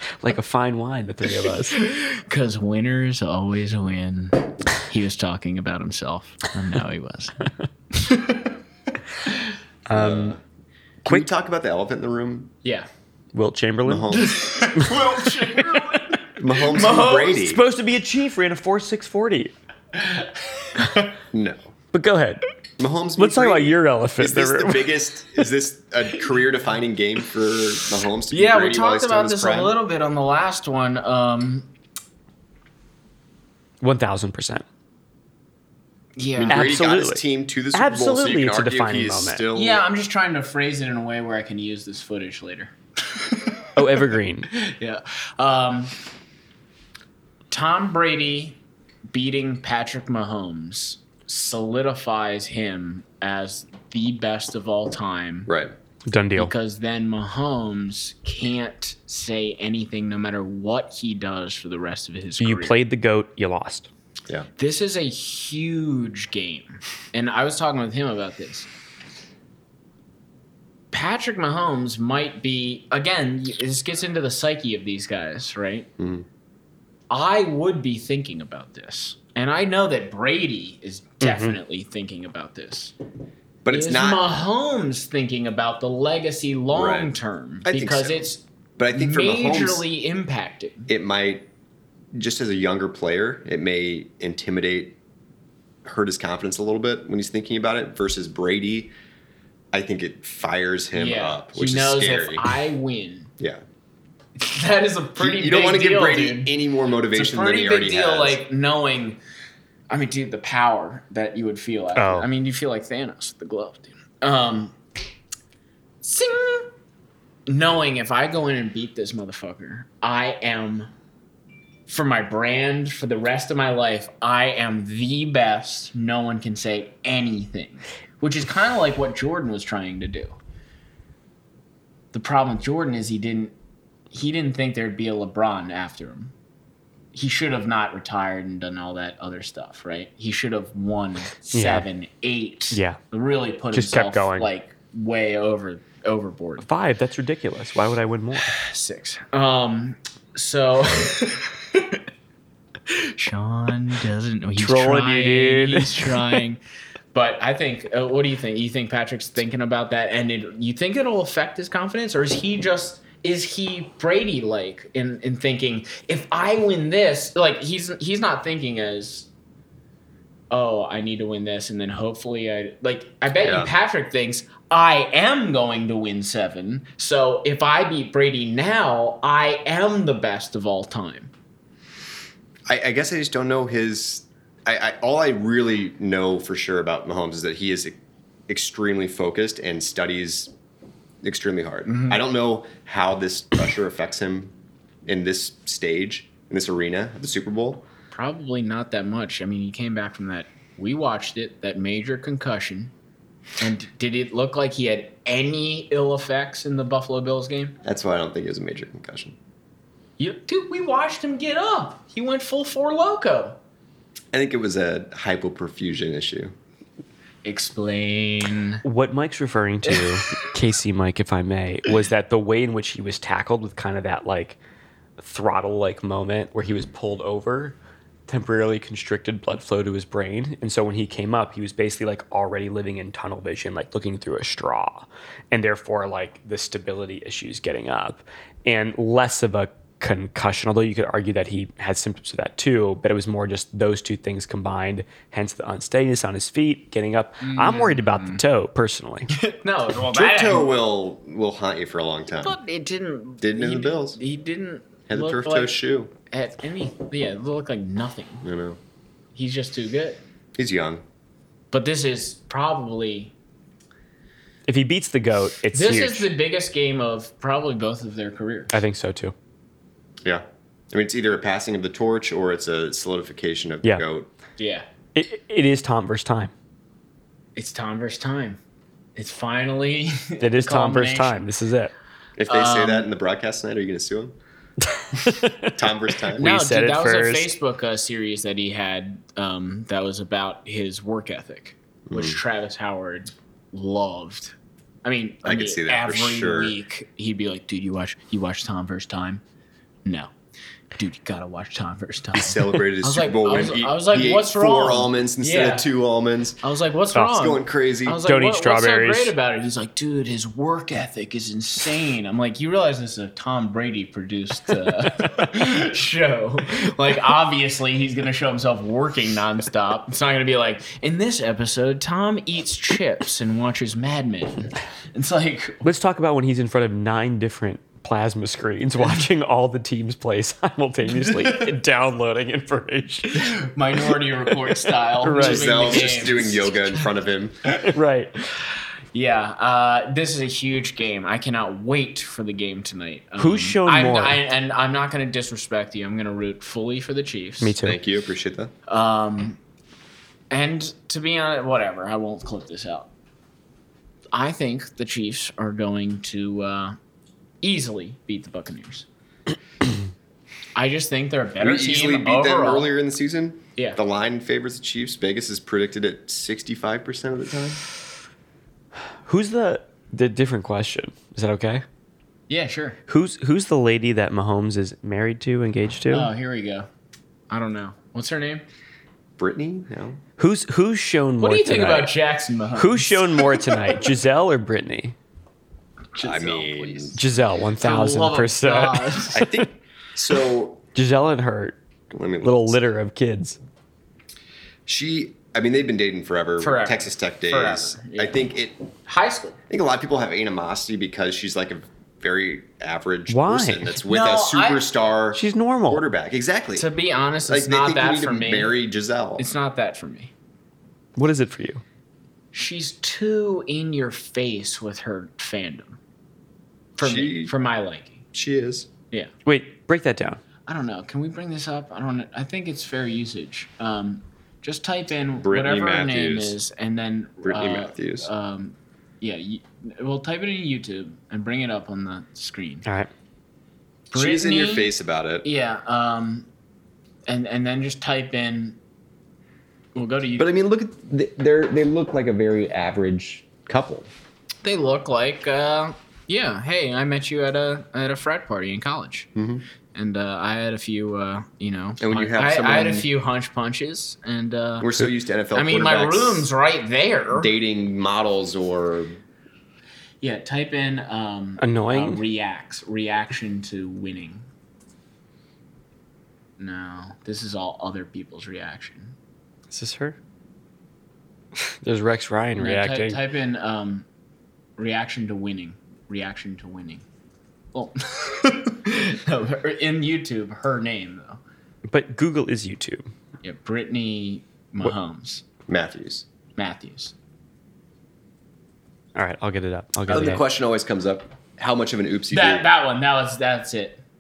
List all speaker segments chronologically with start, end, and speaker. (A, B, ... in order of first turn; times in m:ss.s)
0:00.2-0:01.8 A
0:01.7-0:08.5 B
0:09.9-0:10.4 A
0:09.9-0:10.4 C
0:11.0-0:12.5 C
0:13.3-0:14.1 A
0:13.8-0:14.5 C
0:14.1-0:17.4 B
0:14.8-0:15.1 A
0:16.4-0:17.6 C
0:17.3-0:19.5 A
0:20.0-0:21.1 B
0:21.3-0:21.7 C
0:21.9-0:22.4 A
0:22.8-0:29.7 C
0:23.2-0:25.0 A
0:28.3-0:31.7 B
0:33.8-0:34.6 A
0:36.2-0:36.7 B
0:36.4-0:39.8 C
0:36.5-0:39.4 A
0:39.5-0:43.7 B
0:43.8-0:44.5 A
0:44.5-0:45.9 B
0:47.5-0:48.6 B
0:49.1-0:55.5 B
0:55.4-0:55.7 C
0:56.1-0:56.5 A
0:56.4-1:02.8 B
1:02.4-1:03.9 A
1:04.6-1:08.7 B
1:10.9-1:15.9 B
1:16.0-1:16.2 C
1:17.1-1:22.9 B
1:21.2-1:21.6 A
1:23.6-1:24.2 C
1:23.7-1:30.9 B
1:26.7-1:27.1 C
1:27.6-1:28.3 C
1:28.8-1:29.8 C
1:30.9-1:31.5 C
1:32.1-1:35.0 C
1:35.8-1:38.9 C
1:39.7-1:42.5 C
1:40.9-1:43.3 B
1:44.4-1:46.5 B
1:45.2-1:48.4 C
1:47.1-1:49.2 B
1:49.9-1:54.8 B
1:52.0-1:52.2 A
1:56.0-1:56.7 B
1:57.5-2:00.9 B
2:01.9-2:10.4 B
2:12.1-2:13.5 B
2:14.1-2:16.3 B
2:17.1-2:26.6 B
2:21.5-2:21.8 A
2:22.7-2:23.0 A
2:23.7-2:24.5 A
2:26.6-2:28.6 A
2:28.4-2:32.0 B
2:32.9-2:36.6 B
2:34.6-2:36.4 A
2:37.1-2:49.3 B
2:50.5-3:01.3 B
2:53.4-2:53.7 C
3:02.7-3:08.0 C
3:08.5-3:10.5 C
3:11.2-3:14.5 C
3:11.9-3:12.2 B
3:15.0-3:17.8 C
3:18.1-3:22.9 B
3:23.6-3:27.7 B
3:27.8-3:29.4 C
3:30.2-3:33.6 B
3:34.3-3:36.5 C
3:37.4-3:38.8 B
3:38.8-3:44.6 A
3:39.9-3:40.2 B
3:45.2-3:47.8 A
3:48.3-4:09.3 A
4:07.4-4:08.4 B
4:09.4-4:10.7 B
4:10.1-4:12.6 C
4:12.4-4:15.8 B
4:13.4-4:14.2 C
4:15.1-4:16.1 C
4:16.3-4:18.4 B
4:18.4-4:18.8 C
4:19.3-4:20.2 B
4:20.6-4:21.0 C
4:21.7-4:23.3 B
4:24.7-4:26.3 A
4:25.7-4:28.8 B
4:28.7-4:29.3 A
4:30.2-4:34.3 C
4:34.6-4:34.8 B
4:35.1-4:36.5 A
4:37.6-4:38.6 B
4:39.1-4:41.4 B
4:40.4-4:41.9 A
4:42.4-4:44.3 C
4:42.5-4:43.1 B
4:44.9-4:45.7 A
4:45.7-4:46.4 C
4:46.3-4:47.5 A
4:46.4-4:59.4 B
4:52.1-4:52.4 C
4:55.4-4:56.8 C
5:00.0-5:00.3 B
5:01.0-5:05.9 B
5:02.3-5:06.6 C
5:06.6-5:25.8 B
5:07.3-5:08.2 C
5:08.2-5:09.3 A
5:25.8-5:33.6 A
5:33.3-5:37.1 B
5:34.9-5:35.8 A
5:35.4-5:37.6 C
5:37.9-5:38.3 A
5:39.1-5:47.7 B
5:43.4-5:44.4 A
5:47.6-5:48.0 A
5:47.8-5:48.7 C
5:48.9-5:49.6 B
5:50.5-5:53.1 B
5:54.3-5:57.0 B
5:57.6-5:59.0 B
6:00.7-6:02.9 B
6:01.6-6:07.8 C
6:09.2-6:11.8 A
6:12.5-6:13.0 B
6:13.1-6:16.3 A
6:16.1-6:16.9 B
6:17.5-6:18.6 B
6:19.4-6:20.2 C
6:20.4-6:22.1 A
6:21.4-6:23.7 B
6:22.8-6:25.1 A
6:26.1-6:27.2 B
6:26.2-6:27.2 C
6:27.2-6:29.6 A
6:27.8-6:29.5 B
6:29.3-6:30.8 C
6:30.9-6:31.8 A
6:32.1-6:32.8 C
6:32.4-6:33.6 A
6:34.8-6:38.8 C
6:36.6-6:38.5 B
6:39.0-6:39.6 B
6:39.7-6:46.9 C
6:43.3-6:44.0 A
6:44.0-6:44.9 B
6:45.3-6:46.0 A
6:46.8-6:48.7 B
6:47.5-6:49.4 C
6:49.4-6:50.3 B
6:51.2-6:51.8 A
6:52.5-6:56.0 B
6:57.0-6:58.2 B
6:57.0-6:57.5 C
6:58.3-6:58.9 C
6:59.4-7:00.4 A
7:00.6-7:12.9 B
7:05.4-7:06.6 C
7:07.4-7:08.3 C
7:14.1-7:14.9 B
7:14.1-7:15.5 C
7:15.4-7:16.5 B
7:17.3-7:18.8 B
7:19.9-7:20.5 B
7:20.4-7:24.1 C
7:24.6-7:29.3 B
7:29.4-7:29.6 C
7:29.9-7:34.9 B
7:32.0-7:33.1 C
7:34.8-7:36.5 C
7:35.5-7:37.5 B
7:37.3-7:39.2 C
7:40.2-7:44.4 B
7:41.6-7:42.2 A
7:46.6-7:49.2 B
7:49.7-7:50.2 A
7:51.7-7:53.2 A
7:52.6-7:54.0 B
7:54.8-7:57.0 B
7:57.7-8:01.4 B
8:01.9-8:03.1 A
8:03.4-8:05.4 B
8:05.7-8:06.2 C
8:06.6-8:07.1 B
8:09.1-8:10.4 A
8:10.1-8:12.7 C
8:12.3-8:14.0 B